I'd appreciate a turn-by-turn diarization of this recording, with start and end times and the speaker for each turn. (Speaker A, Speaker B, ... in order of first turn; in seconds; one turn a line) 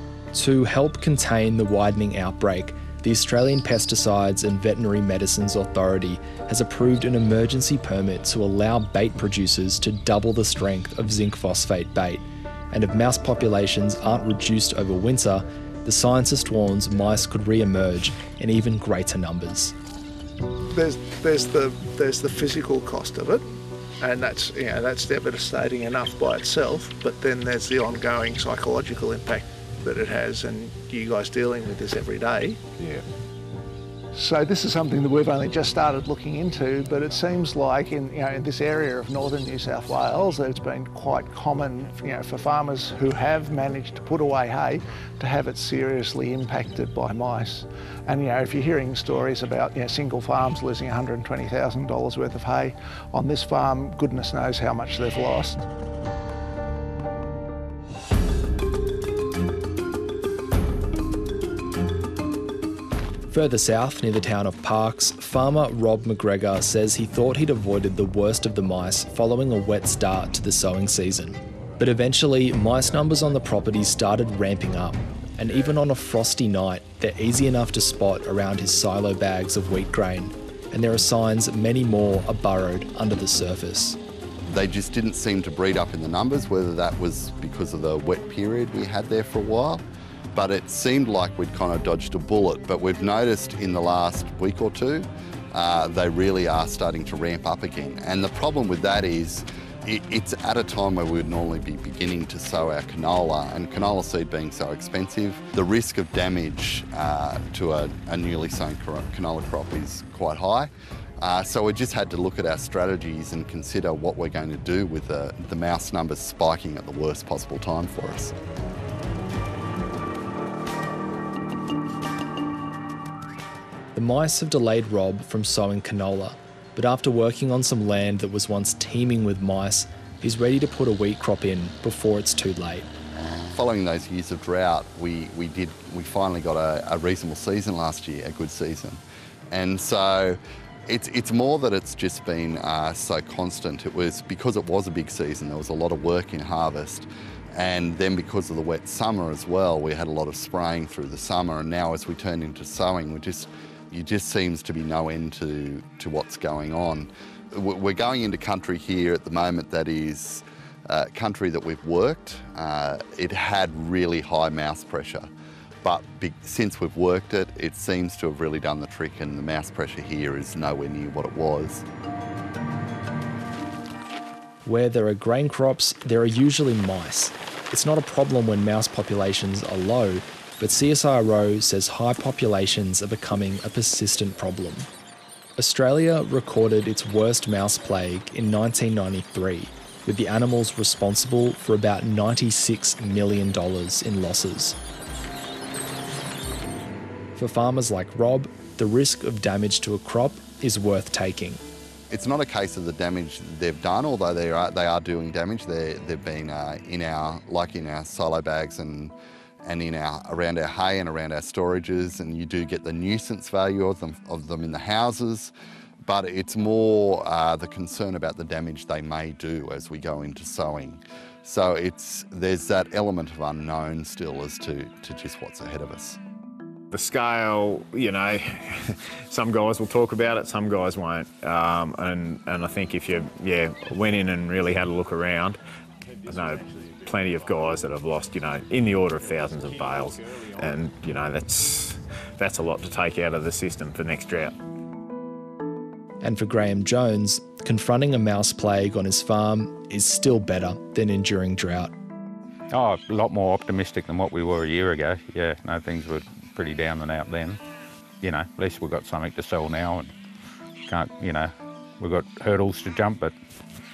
Speaker A: 0.3-19.8
Speaker B: 20.7-23.5
Speaker B: 24.0-32.6
Speaker C: 32.8-33.0
Speaker B: 34.1-55.6
Speaker A: 63.3-84.0
Speaker D: 84.5-89.8
Speaker D: 90.3-118.3
Speaker A: 124.0-132.9
Speaker D: 133.5-165.3
Speaker D: 165.8-171.8
Speaker A: 174.7-184.9
Speaker A: 185.6-194.8
Speaker A: 197.4-201.6
Speaker D: 202.1-209.1
Speaker D: 209.6-215.5
Speaker D: 216.1-226.2
Speaker C: 226.9-235.6
Speaker C: 236.2-244.6
Speaker A: 246.2-251.9
Speaker E: 252.7-257.6
Speaker E: 258.2-260.1
Speaker E: 260.9-263.3